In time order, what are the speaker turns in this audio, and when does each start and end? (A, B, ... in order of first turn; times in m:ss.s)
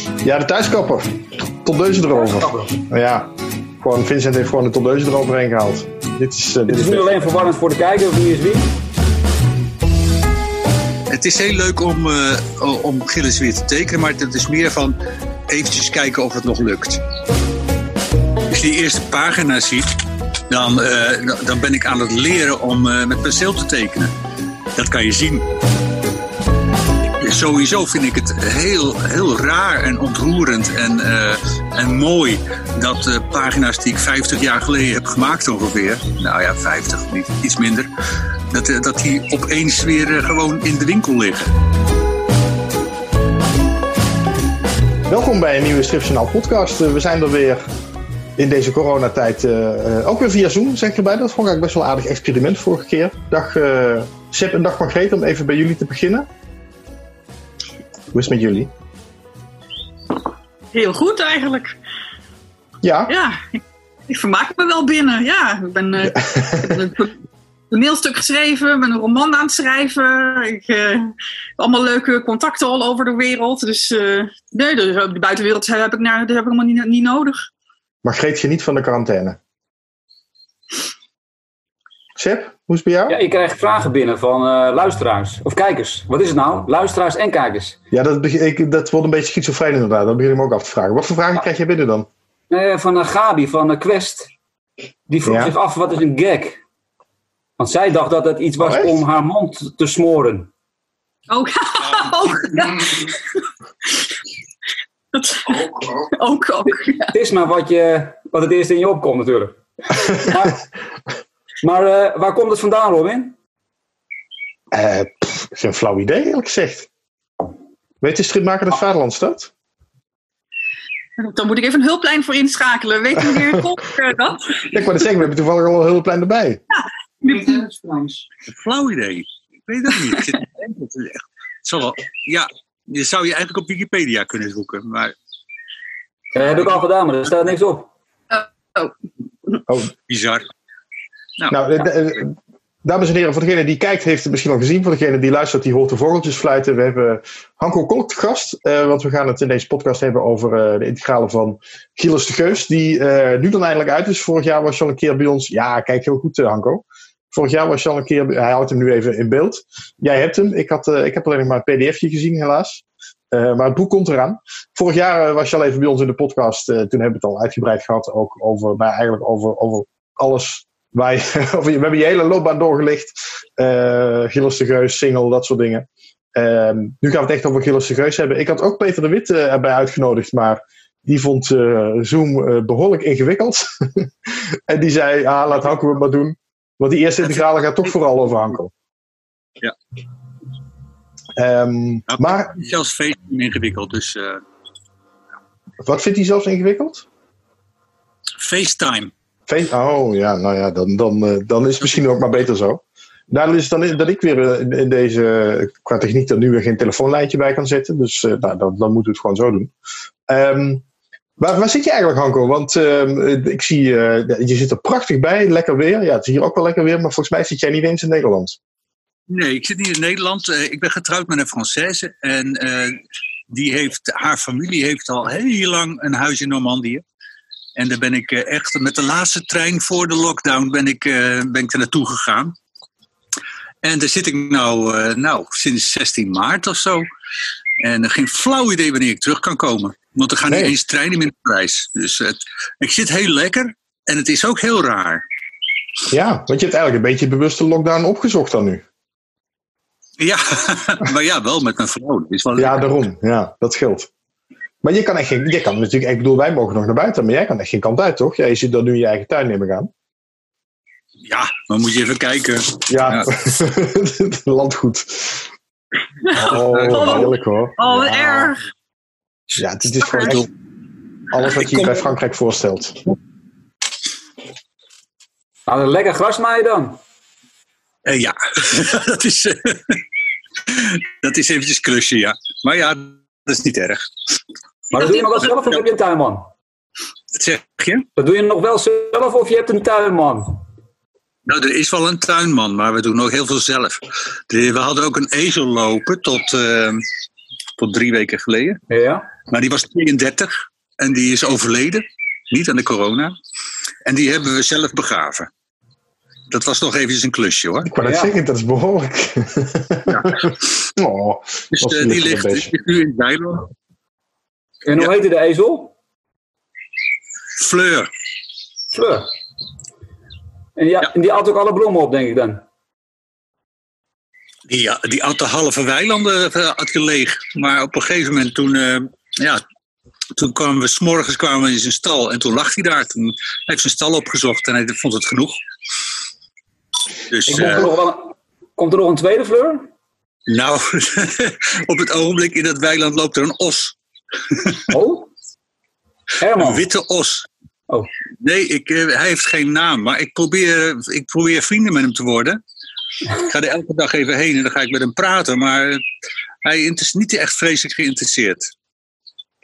0:00.2-0:01.1 A
0:01.6-0:07.1 A
0:02.1-0:02.7 B
0:06.7-0:08.7 B
0:11.1-0:15.0 C
0:15.5-0:17.0 C
0:18.5-0:19.9 C
0:20.5-0:24.1 C
0:24.8-0:25.5 C
0:27.2-0:37.9 C
0:38.5-0:41.5 C
0:45.1-0:47.6 A
0:48.4-0:56.3 A
0:58.1-0:58.7 A
1:00.7-1:01.8 D
1:02.8-1:03.2 A
1:03.1-1:17.5 D
1:06.2-1:06.8 A
1:18.0-1:19.4 A
1:22.2-1:23.2 A
1:23.1-1:27.8 B
1:27.9-1:32.1 A
1:32.5-1:34.3 B
1:35.1-1:36.6 B
1:35.2-1:35.5 A
1:37.6-1:40.5 B
1:38.6-1:39.0 A
1:41.3-1:43.3 D
1:45.1-1:47.1 D
1:46.7-1:50.6 B
1:51.6-1:53.4 B
1:54.7-1:56.9 A
1:58.0-1:59.5 A
2:01.2-2:04.7 D
2:04.7-2:06.6 A
2:06.7-2:07.6 D
2:07.3-2:08.2 B
2:08.6-2:15.1 C
2:16.3-2:17.9 B
2:18.3-2:18.9 D
2:19.7-2:19.9 A
2:20.1-2:20.5 C
2:21.5-3:08.7 A
3:11.4-3:12.6 A
3:12.1-3:14.4 C
3:15.8-3:17.1 A
3:18.4-3:19.1 C
3:19.5-3:29.7 A
3:30.3-3:30.8 A
3:31.4-3:38.6 A
3:39.3-3:47.0 C
3:47.8-3:52.6 C
3:53.8-3:57.1 C
3:57.8-4:05.2 C
4:00.5-4:00.7 A
4:06.1-4:08.8 A
4:10.2-4:12.9 C
4:12.6-4:14.1 A
4:14.8-4:19.9 A
4:21.2-4:23.3 C
4:22.9-4:25.5 A
4:26.3-4:28.6 D
4:26.3-4:28.6 A
4:26.6-4:27.3 C
4:29.6-4:30.5 A
4:30.0-4:30.3 D
4:31.3-4:33.0 A
4:31.6-4:31.9 C
4:35.7-4:37.0 B
4:38.1-4:40.0 C
4:40.7-4:44.1 C
4:44.9-4:46.5 B
4:47.4-4:48.1 C
4:48.2-4:50.6 B
4:51.5-4:57.0 C
4:57.8-4:58.8 C
4:58.9-4:59.3 B
4:59.5-5:03.4 C
5:04.1-5:05.5 C
5:06.5-5:07.9 C
5:07.8-5:12.7 A
5:08.0-5:08.4 B
5:10.1-5:10.5 C
5:11.7-5:13.7 C
5:14.8-5:15.9 B
5:17.6-5:18.1 C
5:18.9-5:19.3 B
5:20.8-5:22.6 B
5:24.7-5:29.6 C
5:30.4-5:35.6 C
5:37.3-5:37.9 C
5:37.5-5:39.9 B
5:40.5-5:44.0 C
5:44.5-5:44.9 C
5:44.9-5:45.3 B
5:46.4-5:46.8 B
5:46.6-5:47.5 C
5:48.4-5:52.6 C
5:53.4-5:56.0 C
5:56.6-5:58.7 C